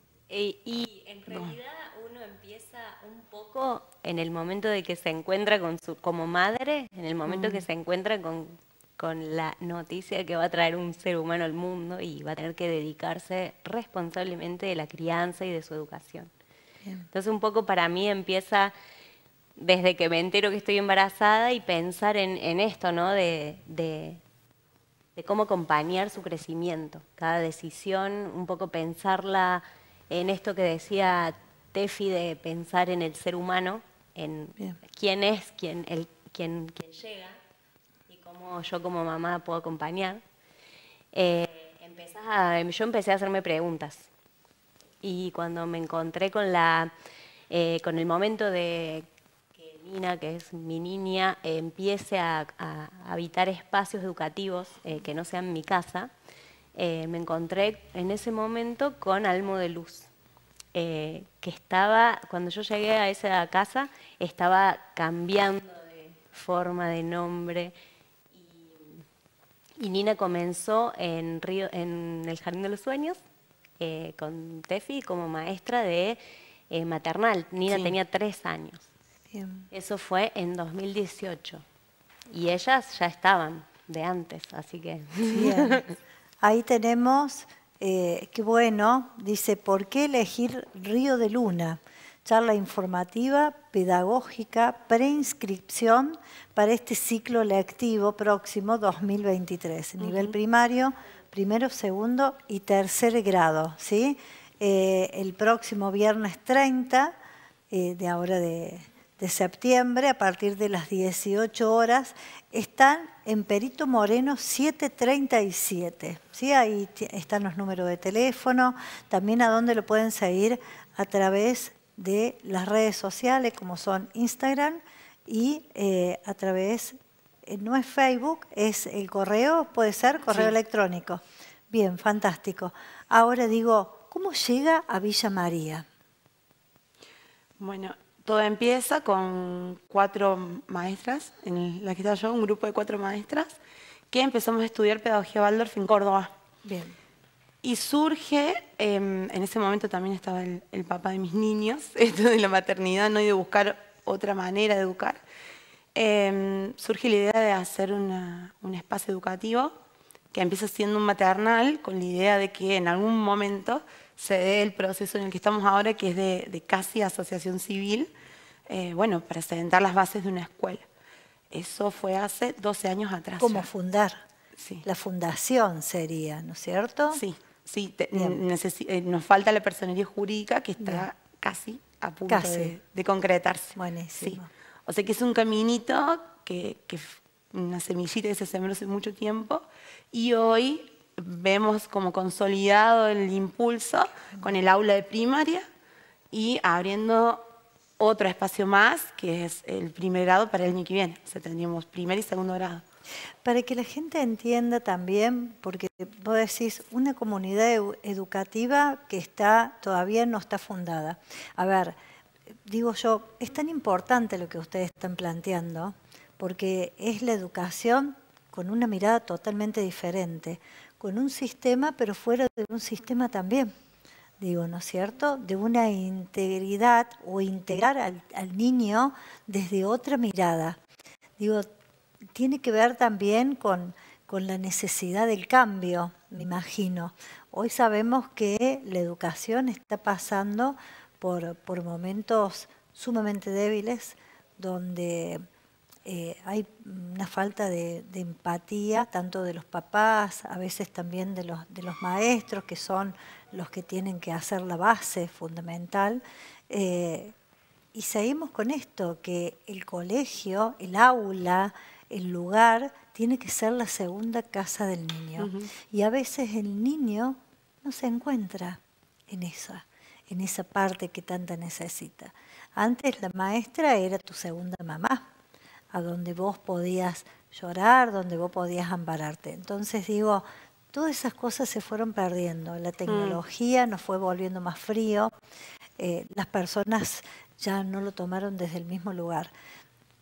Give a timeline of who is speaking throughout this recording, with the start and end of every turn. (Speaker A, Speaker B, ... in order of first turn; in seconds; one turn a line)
Speaker A: 0.3-16.3
Speaker B: 1.3-1.6
Speaker B: 7.3-7.6
Speaker A: 17.1-18.7
Speaker A: 19.6-24.2
Speaker A: 25.1-37.4
Speaker A: 38.1-40.2
Speaker A: 41.1-44.1
Speaker A: 45.0-46.9
Speaker A: 47.5-56.1
Speaker A: 56.8-60.1
Speaker A: 60.7-67.7
Speaker A: 68.3-69.0
Speaker A: 69.8-73.2
Speaker A: 73.8-78.9
Speaker B: 77.7-78.0
Speaker C: 79.3-79.7
Speaker A: 79.7-81.6
Speaker A: 82.3-85.9
Speaker C: 85.3-85.8
Speaker C: 86.4-107.1
Speaker B: 100.0-100.3
Speaker C: 107.7-135.9
Speaker B: 137.6-143.6
Speaker B: 144.1-146.3
Speaker C: 146.6-147.0
Speaker B: 147.6-155.2
Speaker B: 155.9-159.7
Speaker B: 160.3-168.1
Speaker B: 168.7-170.8
Speaker B: 171.5-173.7
Speaker C: 173.4-174.2
Speaker B: 174.6-174.8
Speaker C: 174.8-177.2
Speaker B: 177.1-195.7
Speaker C: 178.1-178.4
Speaker C: 180.8-181.1
Speaker C: 182.3-182.8
Speaker C: 183.8-184.5
Speaker B: 196.3-197.4
Speaker B: 198.0-202.8
Speaker C: 203.4-211.9
Speaker C: 212.7-223.7
Speaker C: 224.4-230.8
Speaker C: 231.4-231.7
Speaker C: 232.3-245.4
Speaker C: 246.1-257.4
Speaker C: 257.9-275.3
Speaker B: 265.4-265.7
Speaker C: 275.9-285.3
Speaker B: 283.1-283.4
Speaker C: 286.0-289.5